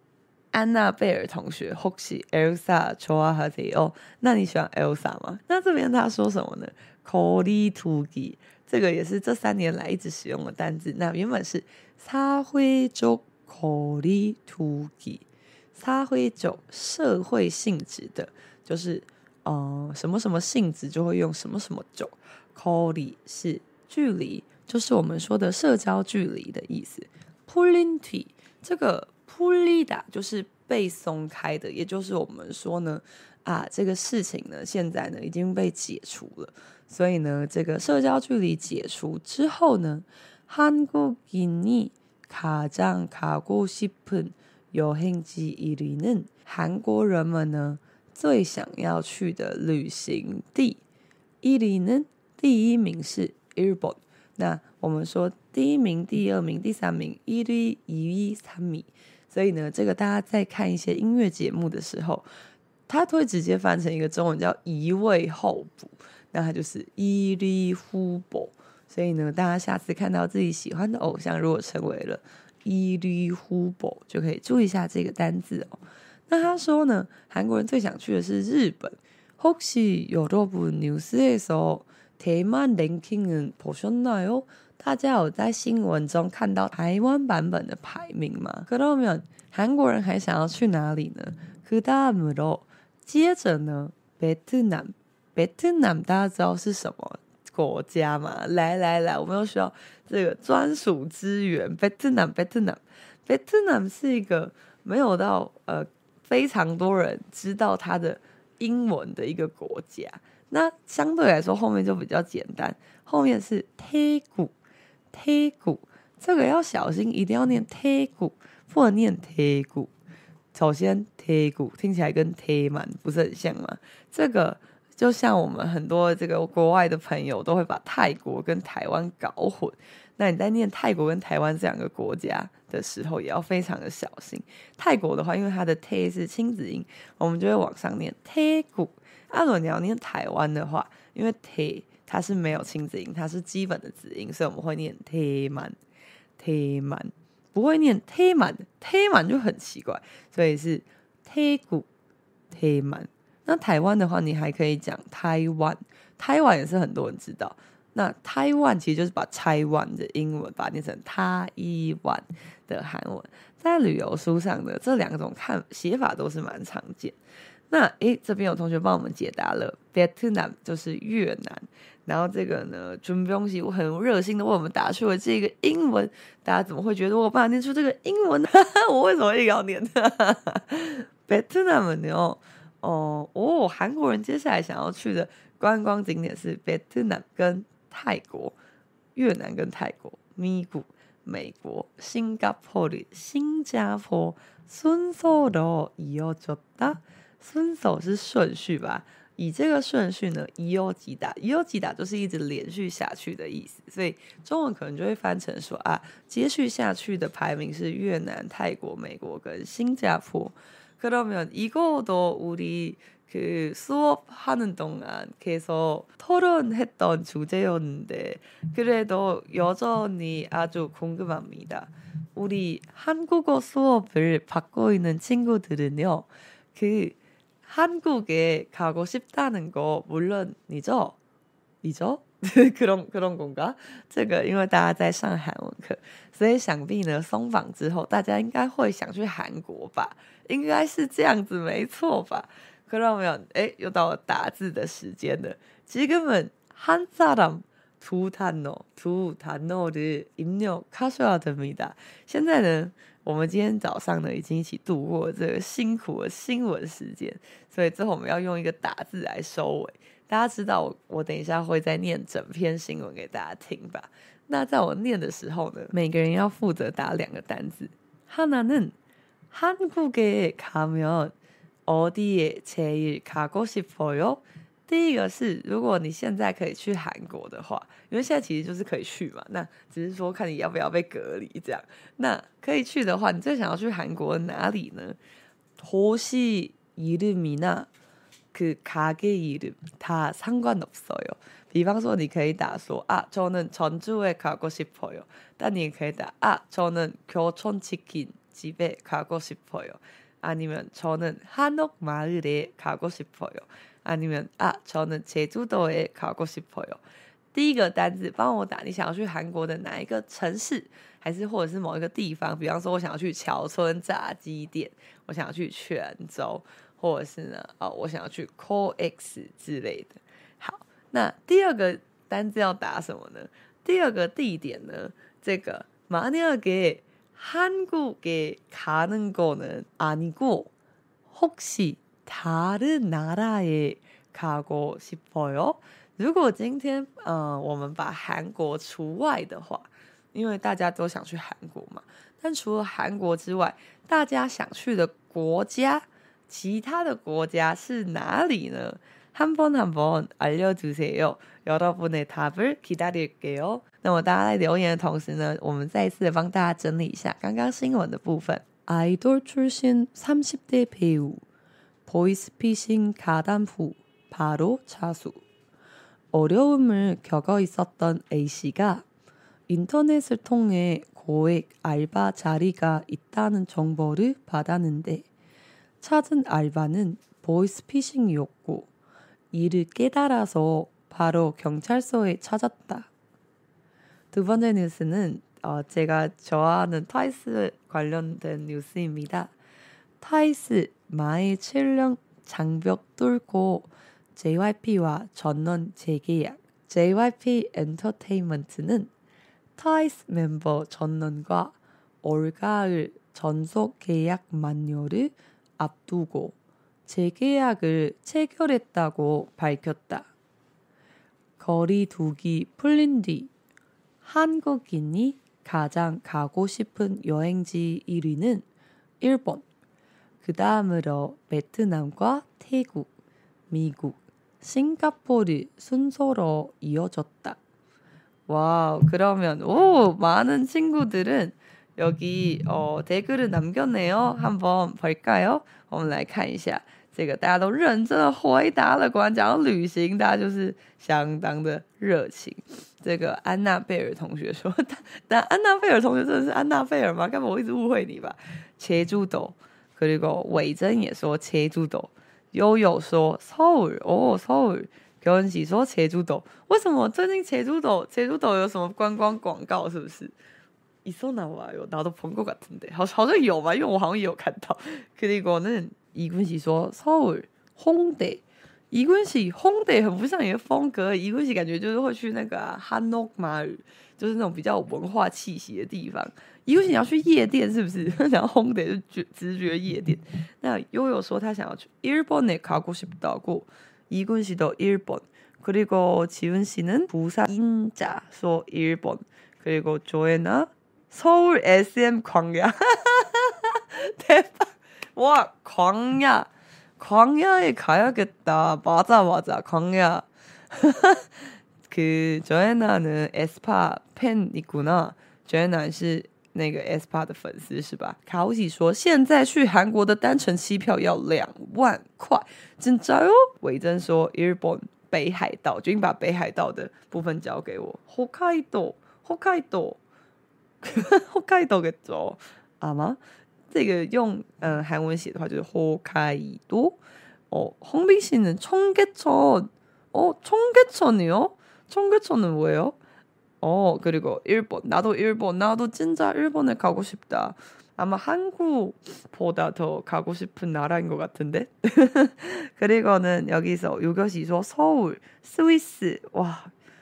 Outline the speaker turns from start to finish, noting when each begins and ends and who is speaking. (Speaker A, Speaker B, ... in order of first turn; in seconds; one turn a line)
Speaker A: 0.5-50.8
Speaker A: 51.4-62.2
Speaker A: 62.9-114.5
Speaker A: 115.1-119.9
Speaker A: 120.5-145.8
Speaker A: 146.4-151.9
Speaker A: 152.5-167.2
Speaker A: 167.7-188.6
Speaker A: 189.1-231.2
Speaker A: 231.8-268.9
Speaker A: 269.5-271.3
Speaker A: 271.9-285.2
Speaker A: 285.8-287.9
Speaker A: 288.5-307.0
Speaker A: 307.5-330.7
Speaker A: 331.3-361.4
Speaker A: 362.1-365.4
Speaker A: 366.3-369.0
Speaker A: 369.7-375.3
Speaker A: 376.0-378.9
Speaker A: 379.5-383.1
Speaker A: 384.3-389.5
Speaker A: 390.2-399.1
Speaker A: 399.8-410.3
Speaker A: 411.6-413.5
Speaker A: 414.2-418.6
Speaker A: 419.2-419.6
Speaker A: 420.4-423.1
Speaker A: 423.7-427.6
Speaker A: 428.5-460.3
Speaker A: 461.0-520.0
Speaker A: 520.8-523.2
Speaker A: 523.7-533.0
Speaker A: 533.6-546.7